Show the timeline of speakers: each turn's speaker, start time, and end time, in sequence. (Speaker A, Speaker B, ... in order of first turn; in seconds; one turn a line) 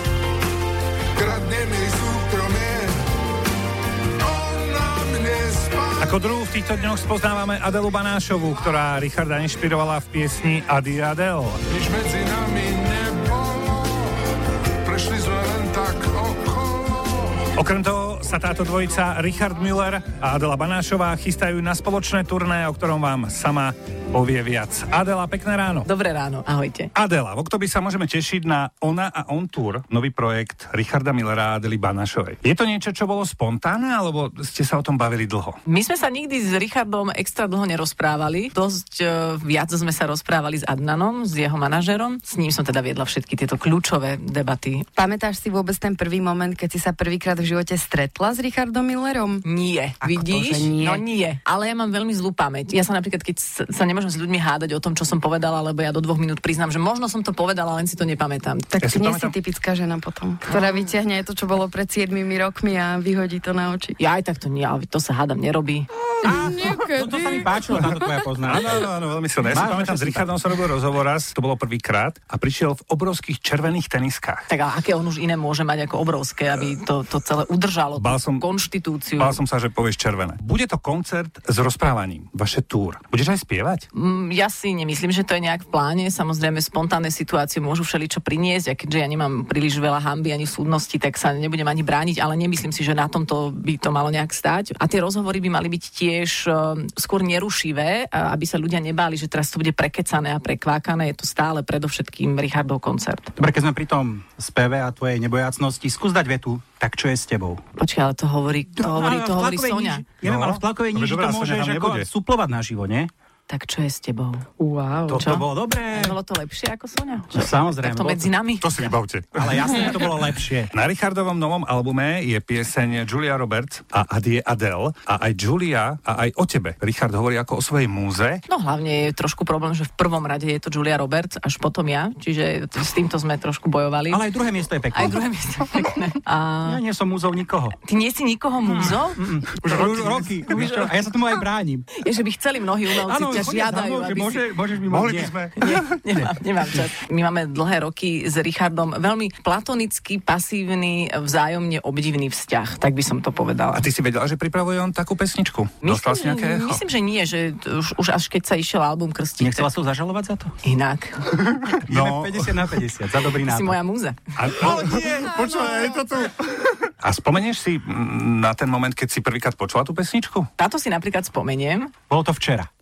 Speaker A: 1.2-3.0
Speaker A: 4.2-6.2
Speaker B: 6.0-11.6
Speaker A: 11.7-14.2
Speaker A: 14.8-17.4
Speaker B: 17.6-25.9
Speaker C: 25.9-26.9
Speaker B: 26.9-35.6
Speaker C: 35.7-44.9
Speaker D: 45.0-49.5
Speaker C: 49.4-58.8
Speaker D: 50.1-51.0
Speaker D: 58.8-64.0
Speaker B: 58.8-59.3
Speaker C: 60.5-60.9
Speaker C: 64.0-65.9
Speaker E: 66.2-68.7
Speaker B: 68.5-74.5
Speaker E: 69.5-70.3
Speaker C: 74.5-79.4
Speaker B: 78.0-78.5
Speaker B: 79.2-83.9
Speaker C: 84.0-103.3
Speaker E: 103.4-107.6
Speaker C: 107.8-110.1
Speaker E: 108.8-113.1
Speaker B: 110.2-112.1
Speaker C: 113.5-119.0
Speaker E: 115.1-116.2
Speaker E: 117.3-118.3
Speaker B: 118.6-120.0
Speaker E: 119.4-120.7
Speaker B: 120.7-128.4
Speaker C: 128.5-134.3
Speaker E: 134.1-135.2
Speaker C: 134.9-136.8
Speaker E: 136.7-137.8
Speaker C: 137.8-140.9
Speaker E: 138.7-141.9
Speaker B: 139.7-140.3
Speaker C: 141.9-144.4
Speaker E: 143.0-145.4
Speaker B: 144.9-145.9
Speaker C: 145.6-153.9
Speaker B: 153.7-156.8
Speaker C: 155.8-159.7
Speaker E: 159.4-160.5
Speaker C: 160.6-161.2
Speaker B: 161.4-162.6
Speaker E: 161.9-163.8
Speaker C: 163.4-164.6
Speaker B: 164.4-170.5
Speaker E: 164.6-166.0
Speaker C: 170.6-171.9
Speaker E: 172.1-172.7